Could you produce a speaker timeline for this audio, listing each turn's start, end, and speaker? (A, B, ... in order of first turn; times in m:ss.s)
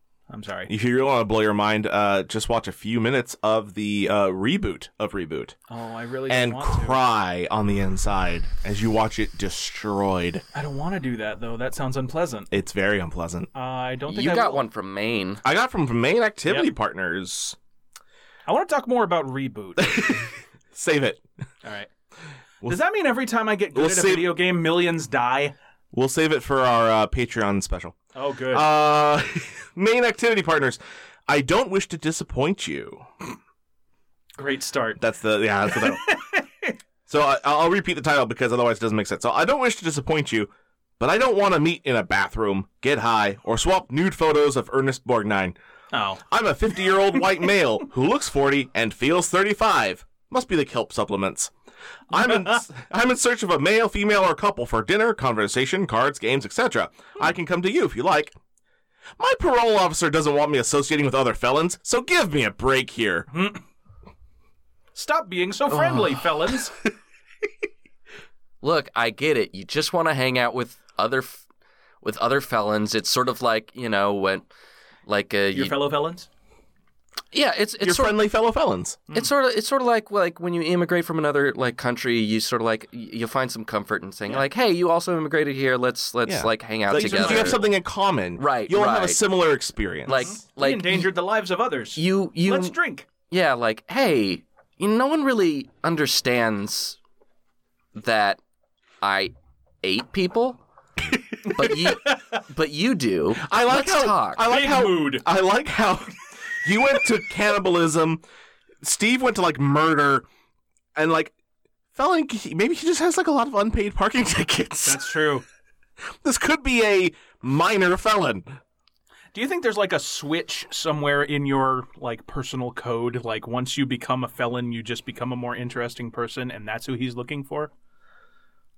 0:00.3-0:00.7 A
0:00.7-0:05.6 B
0:05.7-0:07.0 A
0:06.3-0:10.4 B
0:10.5-0:12.5 A
0:12.5-0:13.5 B
0:13.5-0:14.6 A
0:14.1-0:15.4 C
0:15.4-0:17.6 B
0:18.4-0:20.1 A
0:19.8-0:21.2 B
0:21.6-0:21.9 A
0:22.6-0:25.5 A
0:23.7-0:24.3 B
0:25.9-0:28.0 B
0:28.1-0:28.7 A
0:28.5-0:33.0 B
0:34.4-0:35.0 A
0:35.0-0:36.1 B
0:35.7-0:36.8 A
0:37.1-0:45.6 B
0:45.9-0:46.2 A
0:46.3-0:51.5 B
0:52.1-0:58.4 B
0:52.2-0:52.6 A
0:59.2-1:03.3 B
1:03.3-1:03.6 A
1:04.9-1:06.7 A
1:08.6-1:11.4 C
1:12.0-1:14.5 C
1:15.0-1:15.7 C
1:15.5-1:16.3 A
1:17.3-1:18.2 C
1:17.8-1:19.0 B
1:19.1-1:27.6 C
1:26.2-1:30.3 B
1:26.9-1:27.7 A
1:28.4-1:29.2 C
1:30.0-1:31.1 C
1:30.1-1:33.1 A
1:32.0-1:32.8 C
1:33.3-1:37.0 C
1:37.9-1:38.4 C
1:39.0-1:40.6 C
1:41.5-1:44.4 C
1:41.7-1:42.2 A
1:43.4-1:48.2 B
1:44.5-1:45.2 A
1:48.8-1:50.2 B
1:51.0-1:51.3 B
1:51.9-1:55.0 B
1:54.8-1:55.4 A
1:56.2-1:58.5 B
1:59.3-2:07.7 A